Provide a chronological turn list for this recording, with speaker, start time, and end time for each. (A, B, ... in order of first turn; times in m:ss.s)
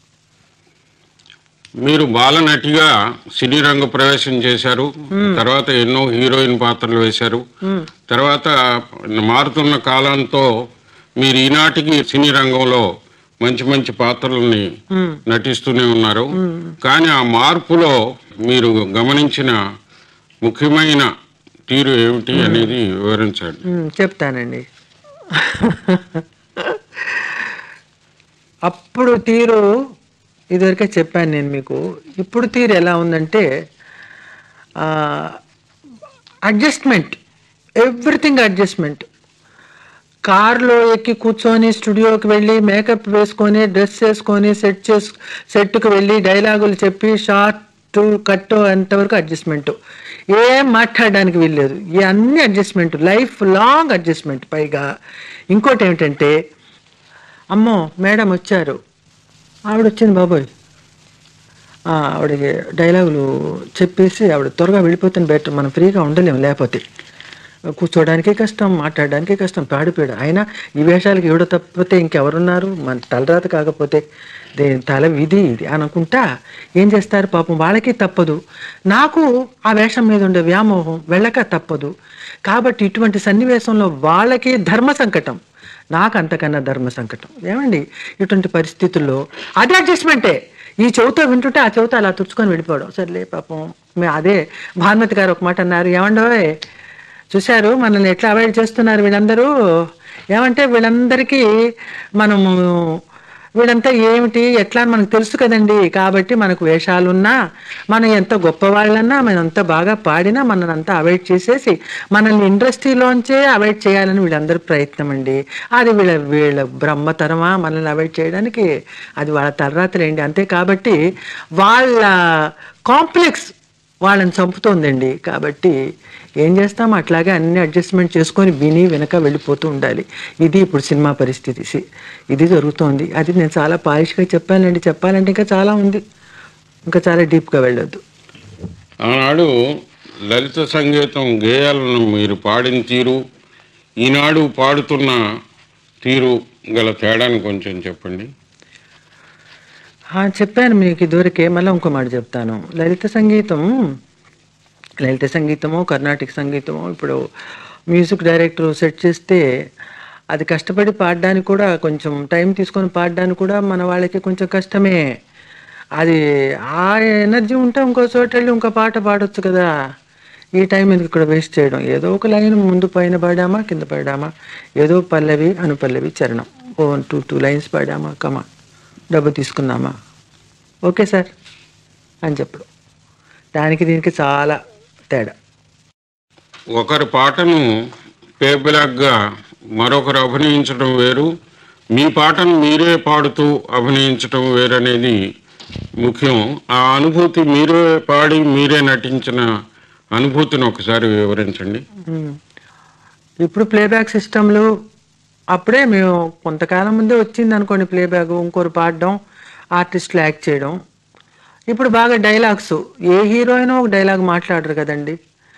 0:01.8-0:07.4 A
0:05.2-0:05.4 B
0:08.1-0:08.5 A
0:09.1-0:10.5 A
0:11.2-0:12.9 A
0:13.4-0:14.6 A
0:14.9-0:15.2 B
0:15.3-0:16.3 A
0:16.4-0:16.7 B
0:16.8-0:18.0 A
0:18.5-0:19.6 A
0:20.4-0:21.1 A
0:21.7-0:23.6 A
0:22.3-0:22.7 B
0:23.7-0:24.6 B
0:25.3-0:27.4 B
0:28.7-0:29.6 B
0:30.5-0:33.4 B
0:34.8-0:35.4 B
0:36.5-0:37.2 B
0:37.8-0:39.0 B
0:40.3-0:49.7 B
0:50.3-0:54.8 B
0:55.5-0:56.3 B
0:57.5-0:58.8 B
0:59.7-1:00.5 B
1:01.9-1:03.2 B
1:03.8-1:06.8 B
1:07.8-1:14.0 B
1:14.6-1:16.2 B
1:16.8-1:18.4 B
1:18.9-1:21.9 B
1:22.5-1:25.4 B
1:25.9-1:36.5 B
1:37.3-1:39.5 B
1:40.3-1:41.5 B
1:42.2-1:42.8 B
1:43.6-1:47.4 B
1:47.9-1:58.6 B
1:59.2-2:01.0 B
2:01.6-2:02.1 B
2:02.9-2:03.5 B
2:04.0-2:05.8 B
2:06.4-2:11.8 B
2:12.3-2:16.0 B
2:16.9-2:18.0 B
2:19.0-2:19.5 A
2:20.3-2:23.2 A
2:24.0-2:25.2 A
2:26.0-2:28.3 A
2:30.2-2:33.6 B
2:35.0-2:37.2 B
2:37.9-2:39.4 B
2:40.3-2:45.0 B
2:46.8-2:49.7 B
2:50.6-2:54.3 B
2:54.8-2:58.4 B
2:59.1-2:59.9 B
3:00.9-3:01.3 B
3:02.2-3:02.6 B
3:03.6-3:04.6 B
3:06.7-3:07.6 A
3:08.4-3:09.1 A
3:09.8-3:11.3 A
3:11.9-3:15.2 A
3:16.0-3:19.4 A
3:20.2-3:21.8 A
3:22.1-3:22.4 B
3:23.4-3:24.7 B
3:25.5-3:29.1 B
3:29.8-3:30.8 B
3:31.7-3:35.2 B